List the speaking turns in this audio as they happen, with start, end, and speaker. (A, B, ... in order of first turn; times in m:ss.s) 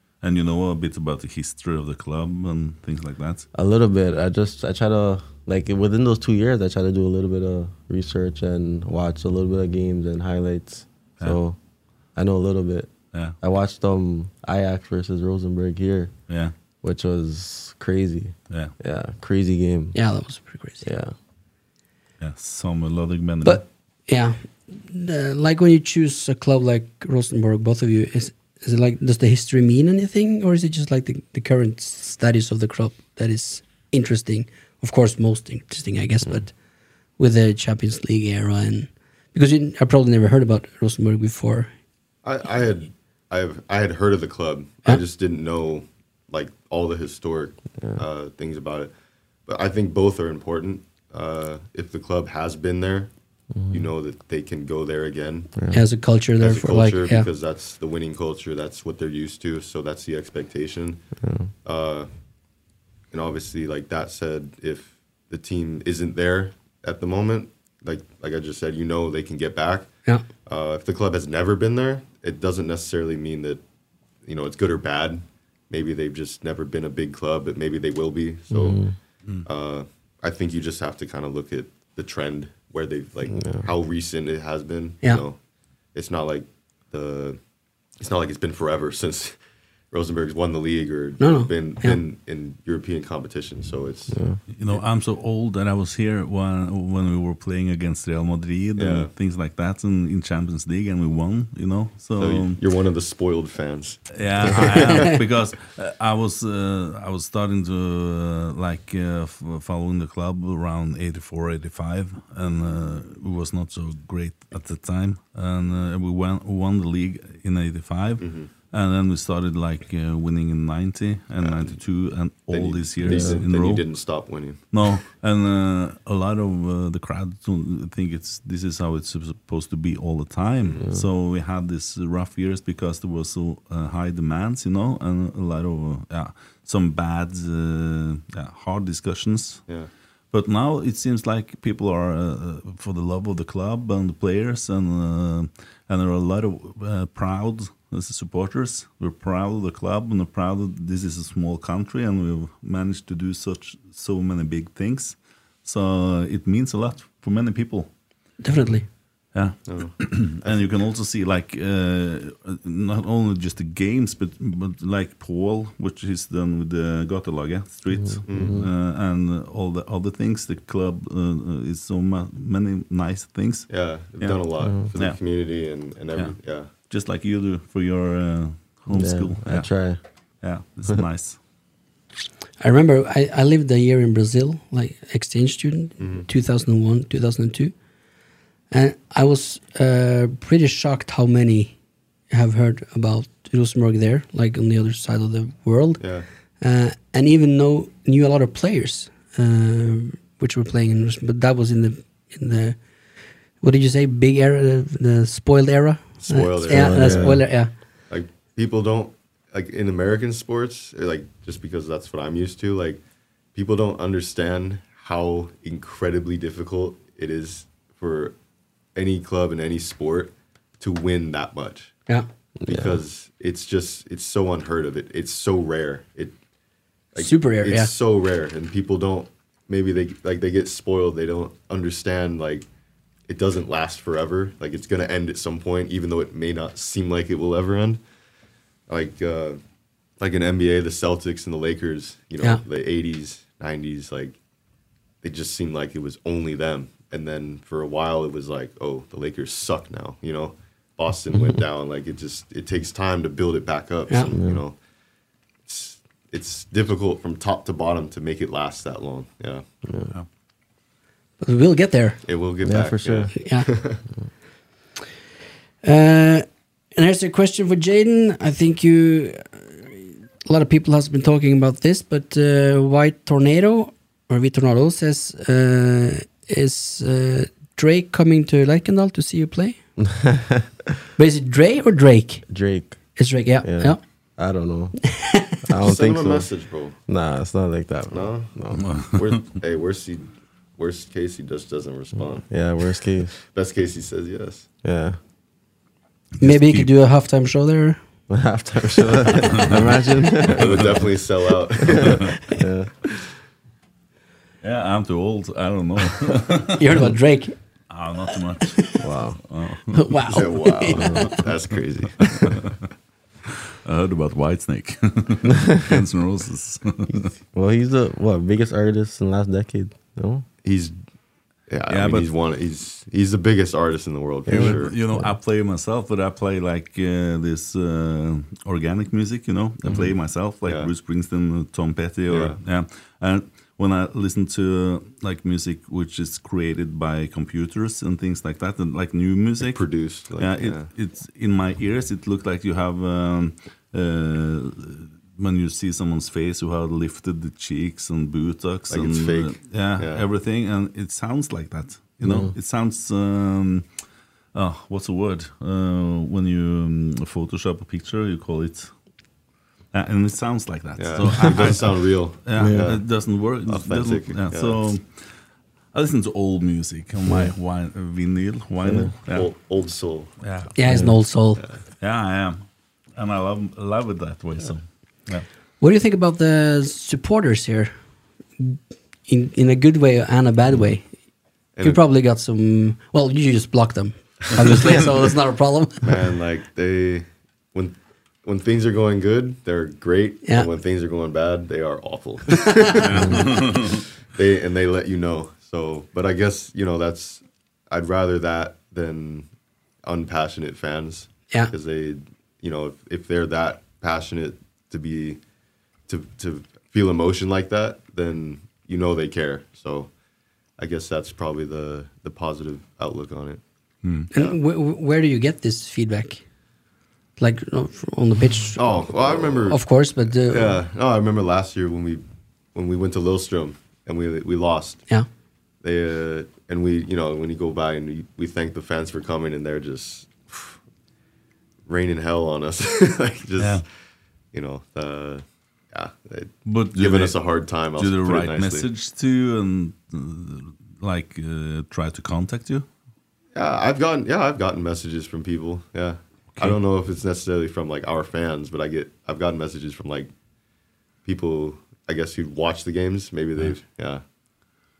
0:00.2-0:03.4 A
0:03.5-0:11.6 B
0:12.2-0:16.1 B
0:16.3-0:16.5 A
0:16.8-0:20.0 B
0:19.9-0:20.9 C
0:20.8-0:21.1 B
0:22.2-0:23.6 A
0:23.4-0:36.5 C
0:37.2-0:41.7 C
0:42.2-0:48.9 D
0:47.8-0:48.0 B
0:49.5-0:53.1 D
0:53.5-0:53.9 B
0:53.7-0:55.5 D
0:55.5-0:55.8 B
0:55.7-0:57.3 C
0:56.4-1:01.0 D
1:01.2-1:01.5 B
1:01.6-1:02.1 D
1:03.1-1:09.9 D
1:10.4-1:13.6 D
1:14.2-1:18.8 D
1:18.5-1:18.9 B
1:19.4-1:25.4 D
1:23.3-1:23.7 B
1:25.9-1:27.4 D
1:28.0-1:29.4 D
1:29.9-1:34.2 D
1:31.2-1:32.0 C
1:34.1-1:34.4 B
1:34.5-1:42.6 A
1:38.8-1:39.1 D
1:42.2-1:45.1 D
1:44.1-2:03.8 A
1:58.2-1:58.5 D
2:01.4-2:01.8 D
2:02.5-2:04.6 D
2:03.0-2:03.4 B
2:04.7-2:19.6 A
2:20.3-2:37.9 A
2:38.4-2:38.8 C
2:39.3-2:53.7 A
2:39.7-2:40.6 D
2:47.9-2:48.7 B
2:48.3-2:48.6 D
2:53.7-2:56.7 D
2:54.6-2:54.9 B
2:56.9-2:59.7 A
2:58.9-3:00.0 B
3:00.4-3:01.4 A
3:02.6-3:07.7 C
3:06.0-3:06.2 D
3:08.7-3:11.8 C
3:12.3-3:16.0 C
3:16.0-3:16.2 D
3:16.6-3:22.8 C
3:23.6-3:27.7 C
3:26.2-3:27.5 D
3:26.7-3:27.4 B
3:28.1-3:33.0 D
3:33.5-3:38.3 D
3:38.9-3:41.9 D
3:42.6-3:43.0 B
3:42.7-3:46.4 D
3:47.1-3:52.7 D
3:47.2-3:47.9 C
3:53.3-3:58.0 D
3:58.9-3:59.6 D
4:00.2-4:04.4 D
4:05.2-4:14.8 D
4:11.3-4:11.6 B
4:14.3-4:14.6 B
4:15.7-4:19.6 D
4:19.8-4:20.1 B
4:21.4-4:22.2 C
4:22.2-4:24.0 D
4:22.6-4:23.3 B
4:23.3-4:23.7 C
4:25.8-4:39.8 C
4:40.0-4:40.7 B
4:41.2-4:42.4 C
4:42.5-4:43.0 B
4:43.2-4:44.0 C
4:43.6-4:45.0 B
4:45.0-4:45.6 C
4:45.6-4:46.5 B
4:45.7-4:47.0 D
4:47.1-4:48.8 B
4:48.1-4:48.5 D
4:48.7-4:49.4 A
4:49.1-4:52.5 D
4:52.5-4:53.3 B
4:53.4-4:54.7 D
4:54.8-4:55.2 B
4:56.4-4:56.9 A
4:56.4-4:58.0 C
4:58.3-5:01.0 B
4:59.5-4:59.9 A
5:00.5-5:02.4 D
5:00.6-5:01.0 A
5:01.8-5:02.9 B
5:04.6-5:07.0 A
5:06.8-5:07.5 C
5:07.9-5:08.9 A
5:08.7-5:09.0 C
5:09.0-5:09.4 B
5:09.5-5:10.0 A
5:09.9-5:11.3 C
5:10.3-5:12.7 D
5:10.9-5:11.3 B
5:13.5-5:17.3 A
5:17.1-5:20.4 B
5:20.6-5:20.9 D
5:21.7-5:24.9 D
5:21.9-5:22.3 A
5:24.5-5:25.3 B
5:24.5-5:39.8 A
5:30.6-5:30.9 D
5:32.3-5:32.6 D
5:39.6-5:40.9 D
5:40.4-5:53.9 A
5:48.9-5:50.2 D
5:52.2-5:52.5 B
5:54.5-5:58.9 A
5:59.9-6:05.1 A
6:01.0-6:03.0 D
6:02.6-6:02.9 B
6:03.7-6:04.8 D
6:05.9-6:09.5 A
6:07.2-6:07.5 B
6:08.8-6:09.1 B
6:09.3-6:10.3 D
6:10.4-6:10.7 A
6:10.8-6:11.6 C
6:10.9-6:11.1 B
6:11.6-6:11.8 D
6:12.0-6:15.4 A
6:15.8-6:17.9 C
6:18.6-6:21.1 C
6:21.8-6:22.0 D
6:21.8-6:26.1 C
6:26.0-6:39.5 D
6:32.6-6:33.0 C
6:33.0-6:34.0 A
6:33.1-6:33.4 B
6:40.0-6:45.4 D
6:46.1-6:50.1 D
6:50.8-6:53.6 D
6:54.0-6:54.3 A
6:54.3-6:56.4 C
6:54.3-6:54.6 D
6:57.4-7:00.8 C
6:58.7-6:59.9 D
7:00.5-7:05.0 D
7:05.8-7:10.8 D
7:11.9-7:13.8 D
7:13.6-7:13.8 A
7:14.5-7:18.9 D
7:16.6-7:17.4 A
7:18.0-7:22.8 A
7:23.5-7:30.3 D
7:31.2-7:34.2 D